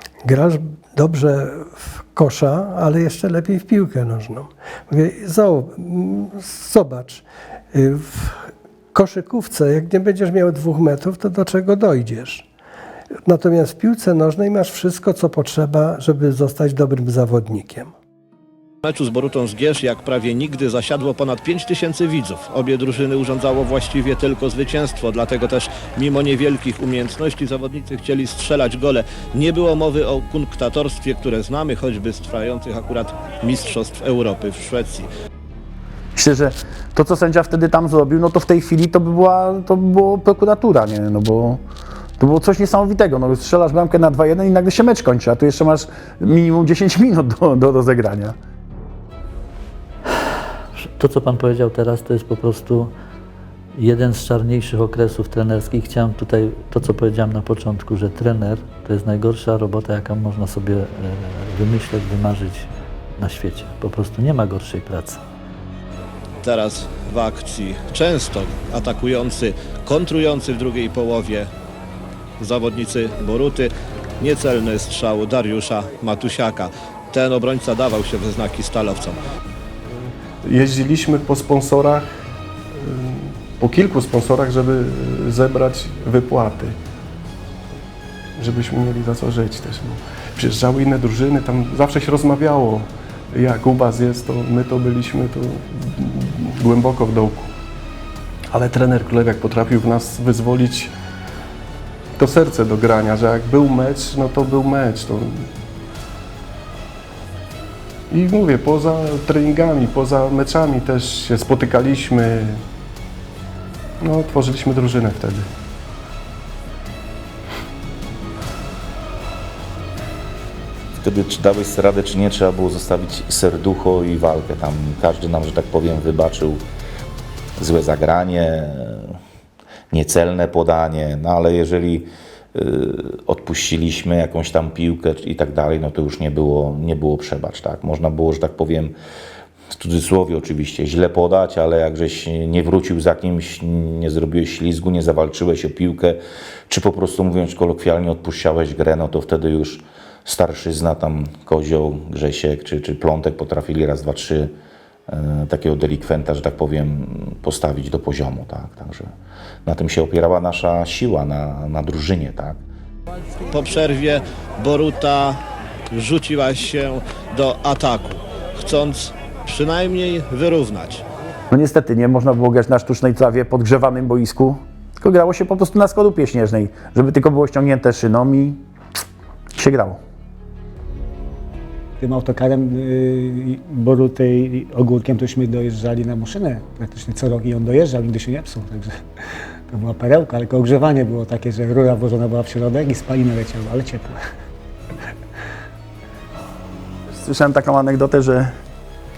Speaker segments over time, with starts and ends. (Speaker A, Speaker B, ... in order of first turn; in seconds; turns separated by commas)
Speaker A: 0.2-12.4, Speaker A: 13.3-17.9, Speaker B: 18.8-35.1, Speaker C: 36.1-41.6, Speaker C: 42.2-48.4, Speaker D: 51.0-52.9, Speaker D: 53.7-65.2, Speaker B: 66.4-71.5, Speaker B: 72.4-79.2, Speaker E: 79.9-82.1, Speaker E: 82.7-86.7, Speaker E: 88.4-97.5, Speaker E: 98.5-100.9, Speaker E: 102.2-105.5, Speaker E: 108.1-112.6, Speaker E: 114.0-115.5, Speaker F: 121.0-126.6, Speaker F: 127.6-129.2, Speaker F: 129.9-138.9, Speaker F: 139.7-154.5, Speaker F: 155.1-159.1, Speaker F: 159.7-162.6, Speaker B: 163.5-165.4, Speaker B: 165.9-171.0, Speaker C: 171.5-178.6, Speaker C: 179.6-180.0, Speaker G: 182.0-188.9, Speaker G: 189.7-194.2, Speaker C: 197.1-198.5